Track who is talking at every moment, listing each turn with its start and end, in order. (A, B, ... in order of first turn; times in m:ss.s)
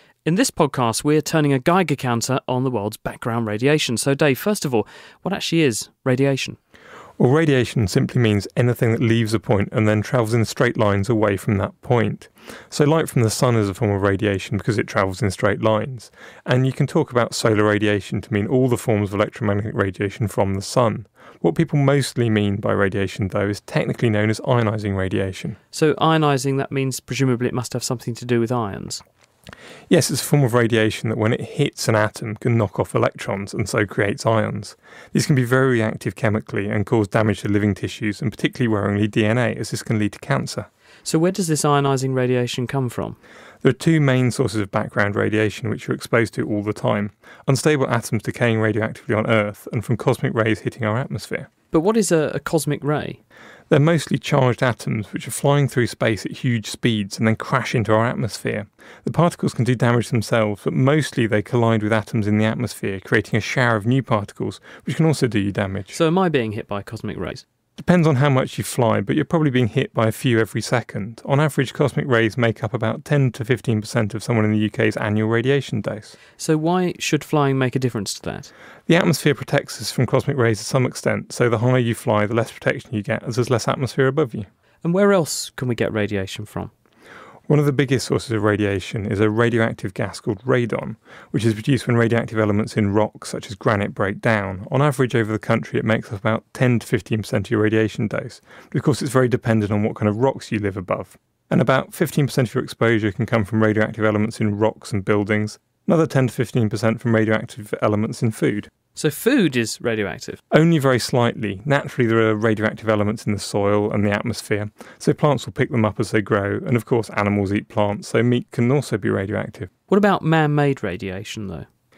0:00.2-0:06.6 A
0:07.2-0:25.6 B
0:25.7-0:29.0 A
0:29.9-0:40.7 B
0:41.0-0:43.2 A
0:43.6-0:51.5 B
0:51.7-0:53.2 A
0:53.7-1:06.0 B
1:05.9-1:07.4 A
1:07.8-1:16.2 B
1:16.4-1:18.5 A
1:18.9-1:24.5 B
1:24.8-1:26.7 A
1:27.5-1:48.7 B
1:48.9-1:50.4 A
1:50.5-1:59.7 B
1:59.9-2:01.7 A